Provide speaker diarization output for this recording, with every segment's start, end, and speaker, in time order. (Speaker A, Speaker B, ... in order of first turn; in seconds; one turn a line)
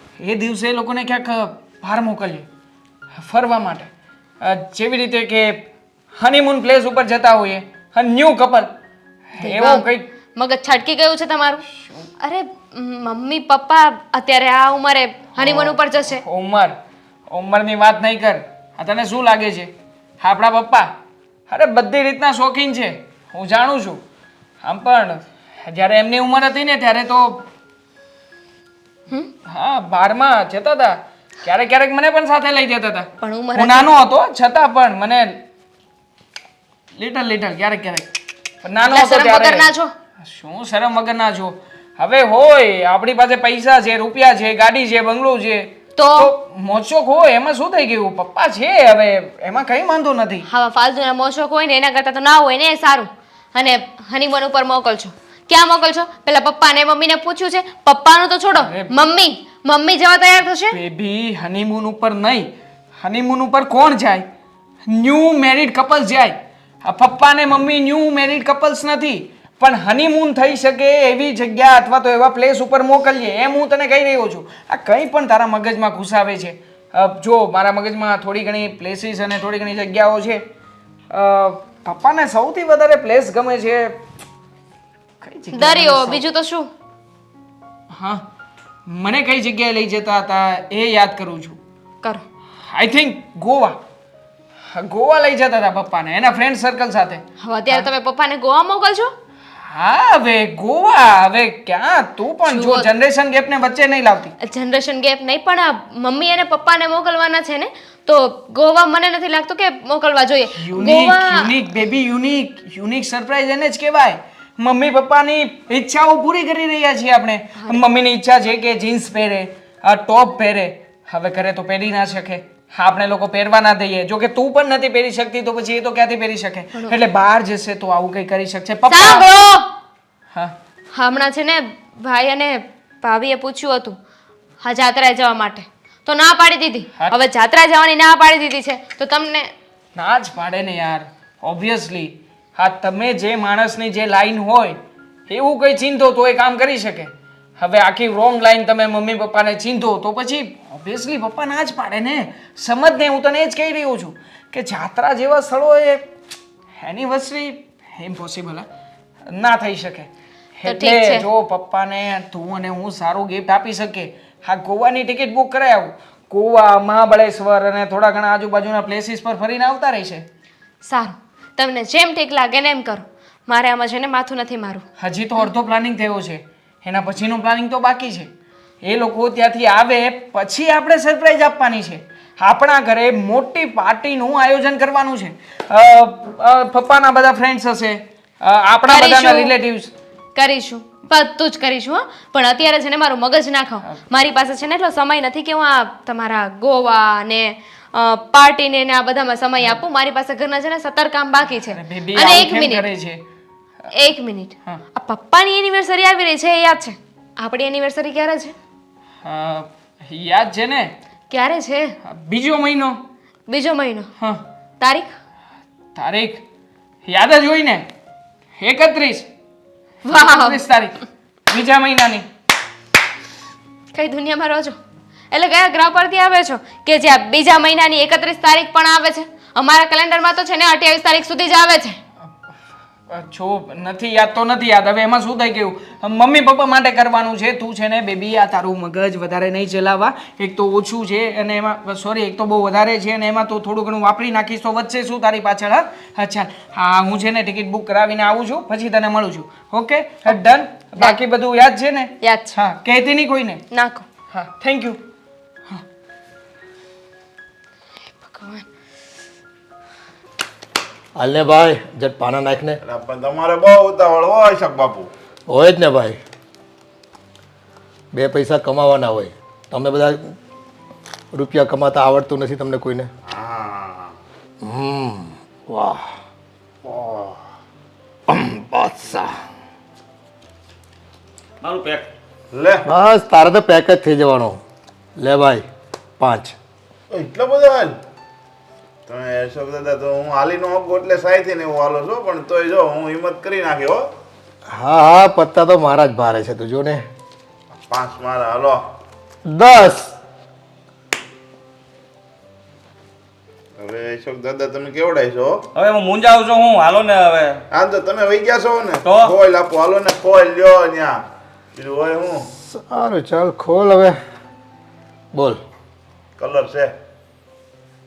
Speaker A: 0.2-2.5
Speaker A: 3.2-3.9
Speaker A: 4.4-8.7
Speaker A: 9.3-10.1
Speaker B: 9.4-11.6
Speaker A: 11.7-12.0
Speaker B: 12.2-16.2
Speaker A: 15.3-16.7
Speaker A: 17.3-20.9
Speaker A: 21.5-24.0
Speaker A: 24.6-27.4
Speaker A: 29.5-35.4
Speaker B: 33.2-33.9
Speaker A: 37.0-38.1
Speaker A: 38.6-39.7
Speaker B: 38.8-39.9
Speaker A: 40.2-50.5
Speaker B: 46.0-46.3
Speaker B: 50.5-60.8
Speaker A: 58.5-58.9
Speaker A: 60.7-64.2
Speaker A: 64.9-80.4
Speaker A: 81.1-84.0
Speaker A: 85.2-86.2
Speaker B: 85.5-86.7
Speaker A: 87.9-88.2
Speaker A: 88.9-91.6
Speaker A: 92.7-93.8
Speaker A: 94.7-97.9
Speaker B: 97.4-99.1
Speaker A: 99.7-104.3
Speaker B: 102.5-102.9
Speaker B: 104.4-111.5
Speaker A: 110.5-129.3
Speaker B: 128.9-129.7
Speaker B: 130.9-134.0
Speaker B: 134.6-139.5
Speaker A: 139.9-156.1
Speaker A: 156.8-158.7
Speaker A: 159.3-170.2
Speaker B: 160.7-161.2
Speaker B: 170.9-174.8
Speaker A: 175.0-178.3
Speaker A: 178.8-189.9
Speaker B: 188.9-189.5
Speaker B: 190.3-202.9
Speaker A: 201.6-203.2
Speaker B: 203.9-208.5
Speaker A: 209.2-210.9
Speaker B: 211.3-211.9
Speaker A: 212.0-213.0
Speaker B: 213.5-214.1
Speaker B: 214.8-215.1
Speaker A: 215.9-216.4
Speaker A: 217.1-217.9
Speaker A: 218.6-219.3
Speaker B: 220.0-220.6
Speaker A: 220.1-222.2
Speaker B: 223.9-224.8
Speaker B: 225.3-232.0
Speaker A: 233.1-253.6
Speaker B: 252.2-252.6
Speaker B: 253.7-254.1
Speaker A: 254.3-255.0
Speaker B: 258.2-258.6
Speaker C: 261.2-262.8
Speaker D: 262.8-265.1
Speaker C: 265.5-266.2
Speaker C: 268.1-270.4
Speaker C: 271.3-273.1
Speaker D: 273.2-274.1
Speaker C: 274.6-276.1
Speaker D: 276.8-277.4
Speaker C: 278.3-279.4
Speaker E: 281.6-282.1
Speaker D: 282.5-282.9
Speaker C: 282.9-284.6
Speaker C: 285.2-285.6
Speaker C: 286.2-286.6
Speaker D: 287.1-287.9
Speaker D: 289.1-294.1
Speaker C: 294.7-297.1
Speaker D: 297.8-298.8
Speaker C: 299.4-300.1
Speaker D: 303.8-305.6
Speaker E: 305.7-307.6
Speaker D: 307.7-311.2
Speaker E: 309.0-309.3
Speaker D: 311.8-312.5
Speaker C: 312.7-314.2
Speaker C: 315.3-315.6
Speaker D: 316.4-316.9